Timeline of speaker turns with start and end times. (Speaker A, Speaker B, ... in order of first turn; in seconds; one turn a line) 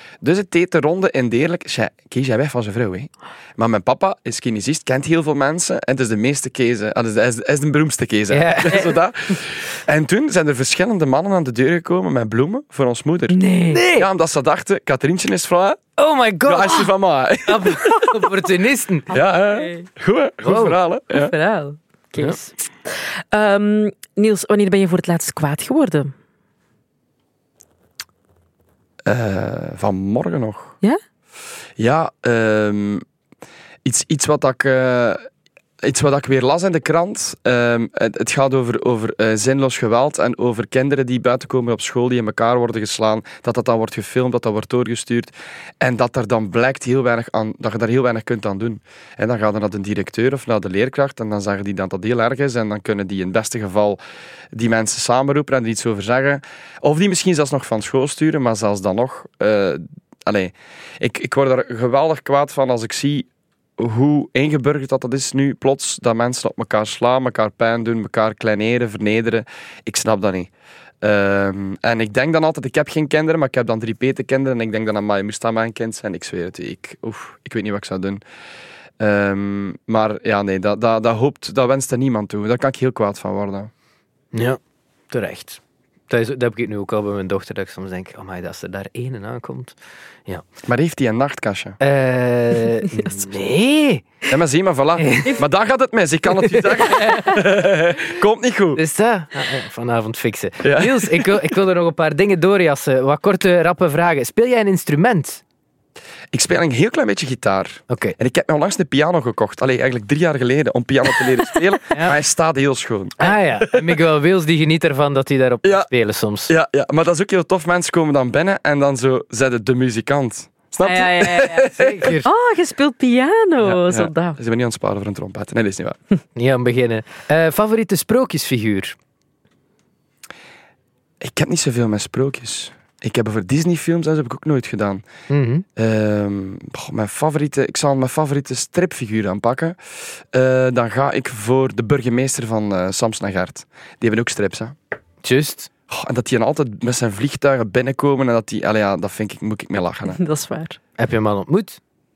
Speaker A: 0.2-13.4
Speaker B: 8.3-8.9
Speaker C: 13.3-13.8
Speaker B: 13.7-14.1
Speaker A: 13.9-15.8
Speaker B: 16.0-16.9
Speaker A: 16.5-18.2
Speaker B: 17.5-19.1
Speaker A: 19.1-21.4
Speaker C: 19.1-19.9
Speaker B: 20.4-20.8
Speaker C: 21.1-26.1
Speaker A: 29.1-30.8
Speaker A: 31.8-33.0
Speaker A: 33.9-35.3
Speaker A: 35.8-54.0
Speaker A: 54.5-63.3
Speaker A: 63.8-70.5
Speaker A: 71.0-78.2
Speaker A: 79.0-83.7
Speaker B: 84.3-84.6
Speaker B: 85.1-90.4
Speaker A: 90.7-91.8
Speaker B: 91.8-94.1
Speaker C: 92.9-93.3
Speaker A: 94.3-98.8
Speaker B: 95.0-95.4
Speaker B: 96.5-97.3
Speaker C: 97.0-97.3
Speaker B: 98.8-105.4
Speaker A: 100.6-101.5
Speaker A: 106.3-113.9
Speaker B: 107.9-108.2
Speaker B: 111.9-112.2
Speaker B: 113.2-116.5
Speaker A: 115.6-115.9
Speaker A: 116.5-122.2
Speaker C: 120.8-121.7
Speaker B: 121.7-122.3
Speaker C: 122.2-124.4
Speaker A: 123.6-126.0
Speaker B: 126.4-129.0
Speaker A: 131.2-135.0
Speaker B: 135.3-135.7
Speaker A: 135.8-139.8
Speaker A: 140.3-144.8
Speaker B: 145.2-145.7
Speaker A: 145.9-150.2
Speaker C: 150.1-150.8
Speaker B: 151.0-151.8